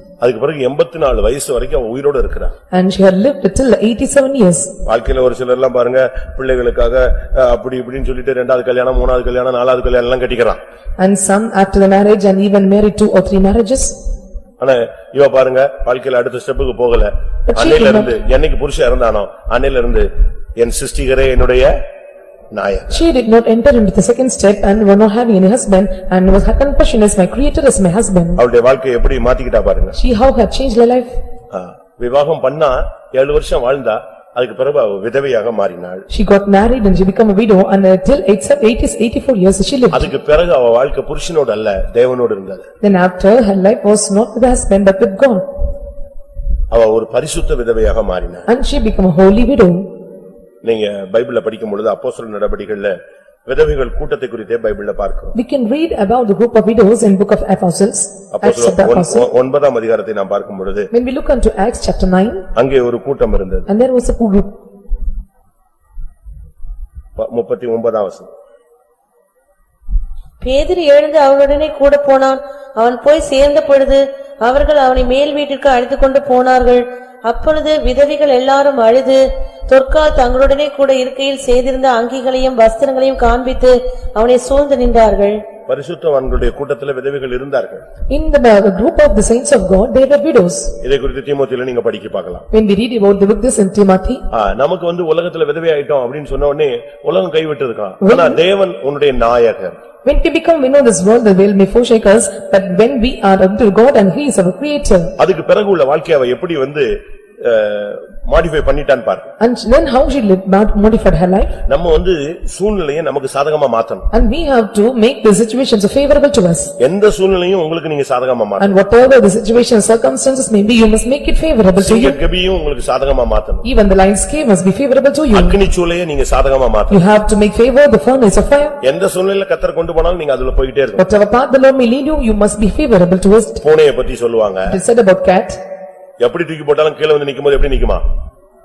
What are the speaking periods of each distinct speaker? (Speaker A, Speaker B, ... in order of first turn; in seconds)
Speaker A: 0.2-2.5, 4.8-10.6, 14.6-21.8, 22.5-23.0, 28.4-30.0, 31.5-36.0, 39.9-42.7, 46.7-48.5, 50.6-52.9, 53.5-55.3, 58.3-60.9, 62.5-63.7, 67.2-68.3, 85.7-87.8, 90.8-92.4, 94.3-99.8, 105.2-106.9, 107.4-109.3, 111.7-114.1, 116.8-118.8, 121.8-123.7, 125.3-127.0, 128.8-131.0, 133.6-134.8, 136.2-138.0
Speaker B: 2.7-4.7, 11.0-14.0, 17.5-18.1, 22.9-28.4, 29.9-31.1, 36.1-40.1, 42.8-45.4, 48.5-49.9, 55.3-59.3, 60.9-62.5, 63.7-64.5, 88.1-90.8, 92.5-94.2, 98.0-98.4, 100.0-105.1, 109.4-111.5, 114.1-116.7, 118.6-122.2, 123.6-125.6, 126.9-128.8, 131.0-133.6, 134.7-135.6
Speaker C: 70.4-85.4